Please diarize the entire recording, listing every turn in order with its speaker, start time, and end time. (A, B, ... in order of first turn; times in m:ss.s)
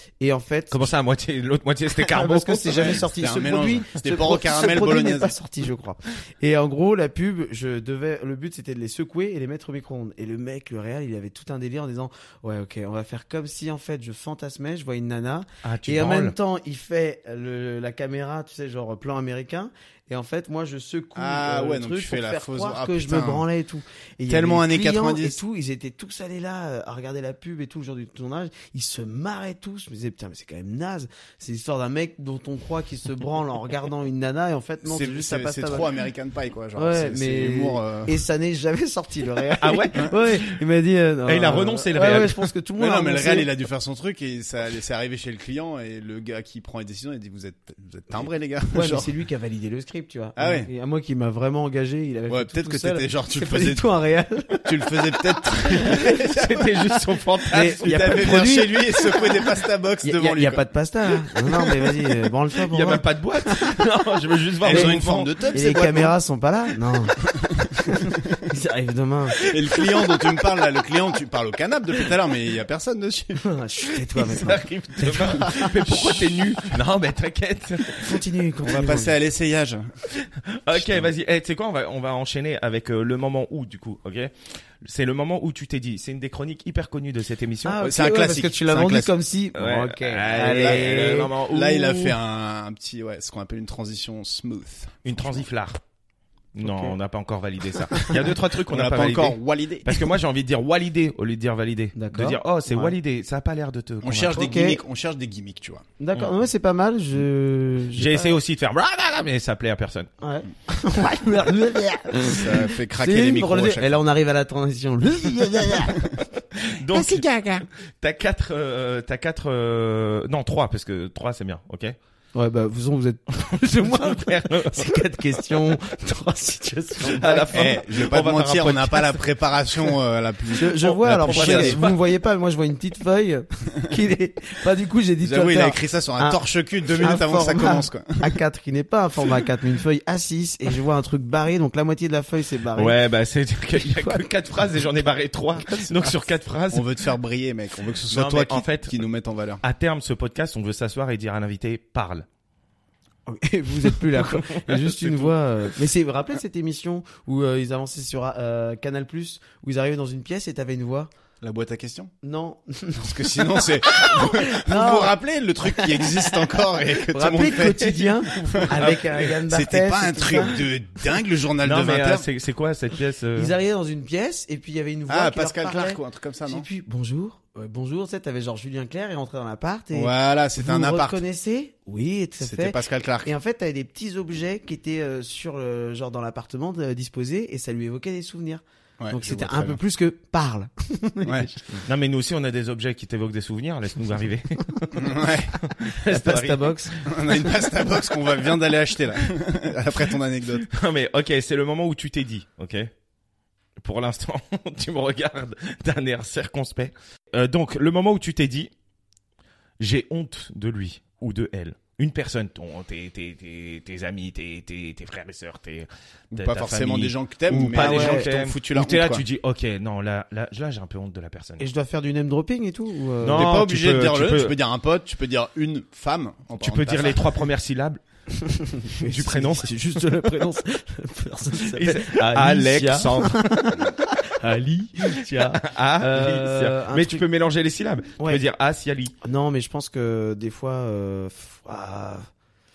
0:00.2-0:00.9 A
0:00.7-0:03.1 B
0:01.9-0:35.9 A
0:02.7-0:05.3 C
0:15.6-0:16.3 B
0:21.2-0:23.4 C
0:24.3-0:25.4 C
0:34.8-0:38.2 C
0:36.8-0:43.5 A
0:39.6-0:40.6 B
0:41.2-0:42.5 B
0:42.8-0:49.1 C
0:48.7-0:54.9 A
0:50.4-0:50.7 C
0:52.3-0:53.9 C
0:54.6-0:56.7 C
0:55.7-0:56.1 A
0:56.1-0:58.4 B
0:57.5-0:59.5 A
0:57.8-1:00.6 C
1:00.0-1:03.7 A
1:02.7-1:05.5 B
1:04.6-1:06.1 C
1:04.7-1:05.0 A
1:05.5-1:07.2 A
1:07.7-1:09.4 A
1:09.4-1:13.4 C
1:13.4-1:16.4 A
1:14.1-1:18.2 B
1:17.9-1:19.2 A
1:18.6-1:19.9 C
1:20.2-1:27.8 B
1:20.7-1:21.1 C
1:27.6-1:31.3 A
1:27.8-1:29.1 C
1:29.5-1:32.2 B
1:30.3-1:35.4 C
1:35.0-1:35.8 B
1:36.5-1:44.5 B
1:36.6-1:36.9 A
1:37.9-1:38.2 A
1:38.7-1:40.1 C
1:41.9-1:42.9 A
1:44.0-1:45.8 C
1:44.3-1:44.8 A
1:46.0-1:48.4 A
1:47.9-1:50.1 B
1:50.2-1:56.1 A
1:52.2-1:54.0 C
1:56.7-1:57.2 B
1:56.9-1:57.6 A
1:58.0-2:02.0 B
2:02.3-2:07.8 A
2:03.8-2:04.9 B
2:07.0-2:09.3 B
2:07.5-2:11.8 C
2:10.6-2:16.4 A
2:10.8-2:12.0 B
2:15.2-2:18.3 C
2:17.0-2:23.0 A
2:22.7-2:27.0 B
2:23.8-2:24.3 A
2:25.6-2:26.2 A
2:26.7-2:29.6 C
2:28.1-2:29.0 B
2:29.6-2:32.2 B
2:33.3-2:41.1 A
2:34.1-2:34.6 B
2:41.4-2:42.1 C
2:42.2-2:45.1 A
2:43.0-2:48.8 C
2:45.7-2:50.6 A
2:48.1-2:49.4 B
2:49.5-2:52.2 C
2:51.6-2:53.5 B
2:53.4-3:11.8 A
2:55.1-2:56.6 C
2:59.9-3:01.2 C
3:02.4-3:03.3 C
3:09.0-3:09.8 C
3:11.2-3:11.5 C
3:11.8-3:14.8 B
3:14.8-3:15.0 A
3:15.0-3:15.6 C
3:15.7-3:16.9 B
3:16.0-3:17.5 A
3:17.1-3:20.7 C
3:20.6-3:22.9 B
3:23.8-3:28.7 B
3:29.8-3:41.6 B
3:36.3-3:39.2 C
3:37.7-3:38.3 A
3:41.6-3:43.5 A
3:43.2-3:44.6 B
3:43.3-3:47.4 C
3:46.6-3:48.0 B
3:48.4-3:57.2 A
3:48.9-3:49.7 B
3:51.6-3:53.8 B
3:55.3-3:59.1 B
3:58.2-3:58.4 A
3:59.2-4:02.3 A